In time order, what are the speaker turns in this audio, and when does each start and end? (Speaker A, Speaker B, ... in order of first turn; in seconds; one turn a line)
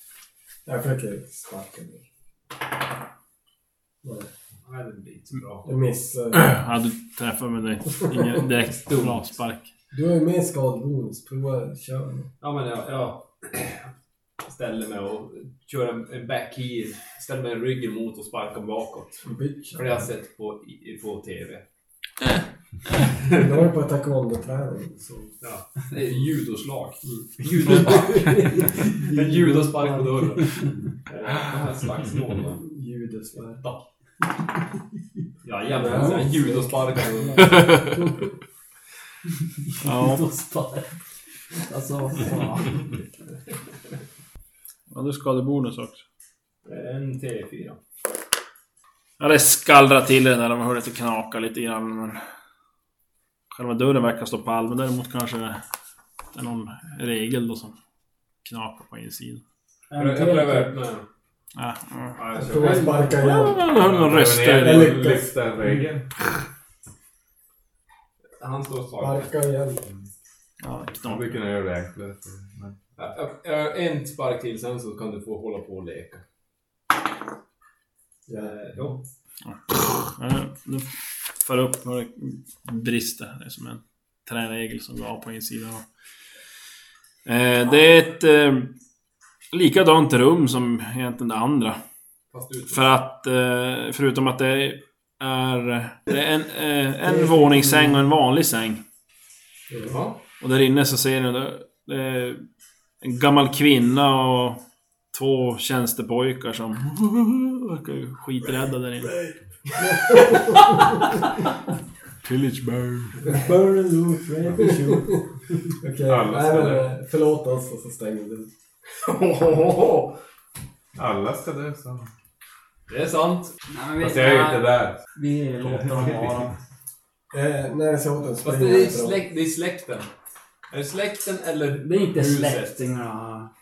Speaker A: 0.7-2.0
Speaker A: 4.0-4.3
Speaker B: 4.7-5.7
Speaker A: 5.7-6.5
Speaker C: 6.3-9.7
Speaker B: 8.9-9.3
Speaker A: 9.9-12.3
Speaker B: 12.4-13.9
Speaker B: 14.5-19.2
Speaker A: 19.2-20.0
Speaker B: 19.8-21.6
Speaker A: 23.2-25.3
Speaker B: 25.4-32.6
Speaker D: 27.9-30.7
Speaker A: 32.6-33.6
Speaker B: 35.4-37.8
Speaker A: 35.7-38.2
Speaker D: 35.9-36.3
Speaker D: 37.1-37.5
Speaker D: 39.8-41.0
Speaker C: 39.8-40.2
Speaker D: 41.6-42.7
Speaker C: 44.9-46.0
Speaker B: 46.6-47.8
Speaker C: 49.2-52.2
Speaker C: 53.5-55.6
Speaker C: 56.3-57.8
Speaker C: 58.4-59.4
Speaker D: 59.9-60.8
Speaker B: 60.0-61.0
Speaker C: 61.5-62.2
Speaker B: 62.2-63.1
Speaker A: 62.4-63.7
Speaker D: 62.5-63.2
Speaker C: 63.1-65.2
Speaker E: 63.8-66.1
Speaker A: 64.5-65.3
Speaker B: 68.4-69.3
Speaker A: 69.0-69.8
Speaker C: 70.6-71.4
Speaker E: 70.9-72.8
Speaker B: 73.0-76.2
Speaker A: 78.3-78.5
Speaker B: 78.4-79.0
Speaker C: 79.5-80.9
Speaker C: 81.4-85.8
Speaker C: 87.2-88.7
Speaker C: 89.5-91.8
Speaker B: 92.3-92.8
Speaker C: 92.7-98.8
Speaker A: 97.2-97.9
Speaker A: 99.7-100.0
Speaker B: 99.8-100.2
Speaker C: 100.4-102.4
Speaker C: 103.0-104.6
Speaker C: 105.1-109.3
Speaker A: 109.8-111.0
Speaker C: 112.2-113.2
Speaker D: 113.3-115.2
Speaker A: 113.8-115.2
Speaker A: 115.8-118.5
Speaker E: 116.1-116.9
Speaker B: 119.0-120.2
Speaker E: 121.0-122.1
Speaker B: 122.9-123.5
Speaker D: 123.7-126.5
Speaker E: 124.0-125.0
Speaker E: 125.6-126.5
Speaker A: 127.3-129.2
Speaker B: 128.4-130.1
Speaker B: 130.7-132.8
Speaker D: 131.8-133.5